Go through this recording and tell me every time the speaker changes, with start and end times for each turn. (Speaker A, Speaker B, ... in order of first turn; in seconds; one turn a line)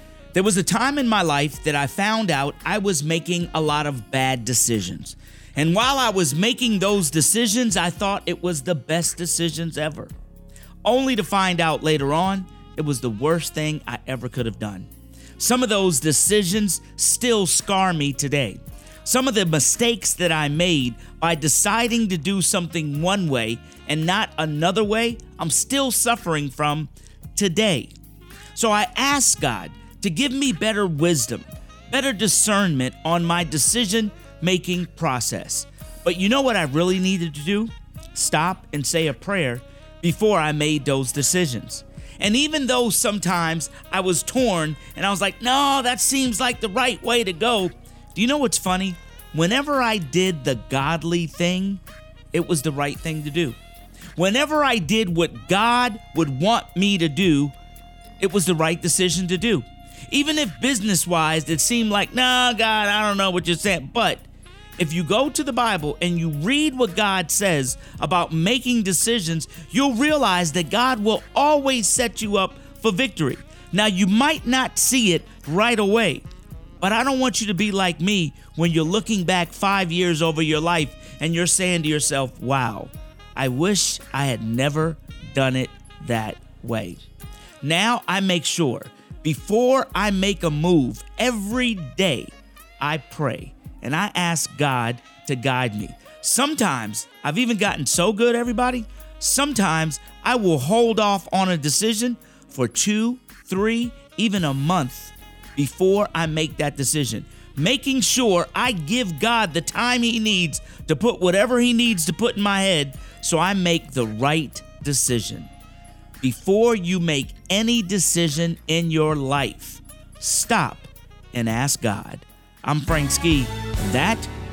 Speaker A: 0.3-10.1
Speaker A: 10.8-27.9
Speaker A: 28.5-51.8
Speaker A: 52.3-53.6
Speaker A: 54.1-57.5
Speaker A: 58.2-64.3
Speaker A: 64.8-76.3
Speaker A: 76.8-87.0
Speaker A: 87.6-115.5
Speaker A: 116.2-124.3